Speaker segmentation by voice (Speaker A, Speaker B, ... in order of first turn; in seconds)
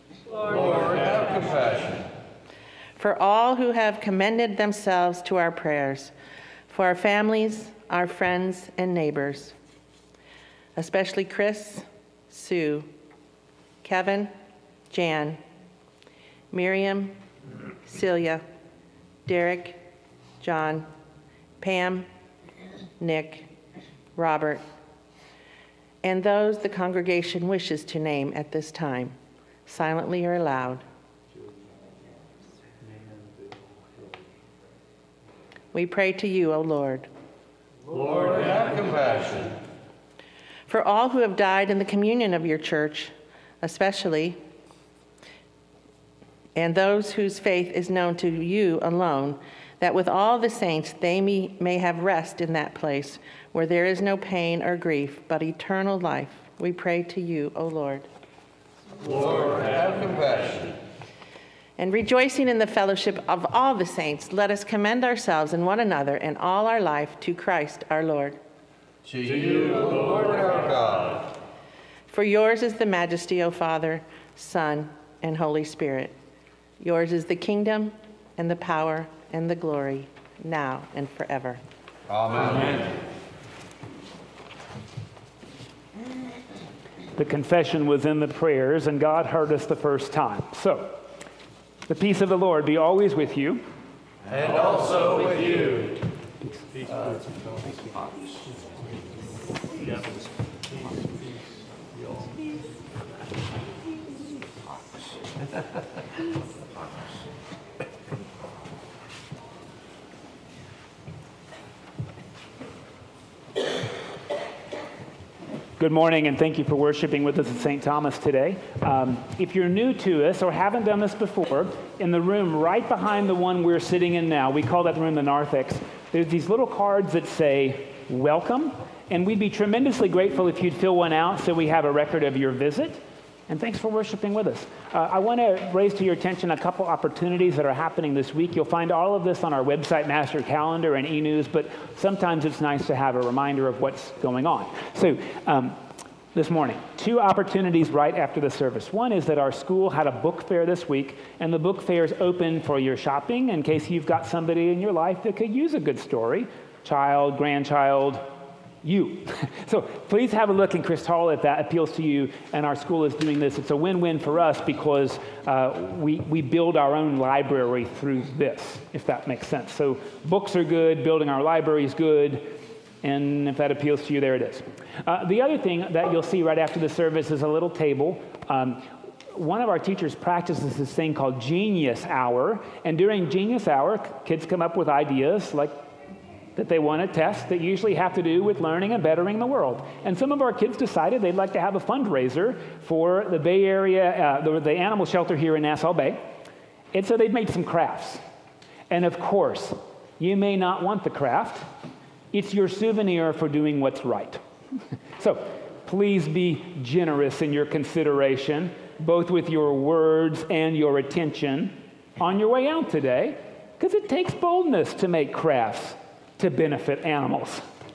Speaker A: 0.4-2.1, 37.9-39.6, 59.0-60.8, 69.0-71.3, 82.1-83.0, 94.2-96.0, 96.8-97.9
Speaker B: 3.0-6.1, 6.7-9.5, 10.8-12.9, 13.8-14.3, 14.9-15.4, 16.5-17.1, 17.8-18.4, 19.2-19.8, 20.4-20.9, 21.6-22.1, 23.0-23.5, 24.1-24.6, 26.0-29.1, 29.7-30.8, 35.7-37.1, 40.7-44.4, 46.5-58.1, 61.8-68.4, 72.1-76.1, 76.8-81.6
Speaker C: 87.2-91.0, 91.9-93.6, 115.8-145.8, 146.3-158.2, 158.8-172.5, 173.0-185.7, 186.6-196.2, 196.9-198.2, 198.9-201.7, 202.3-204.4, 205.2-217.6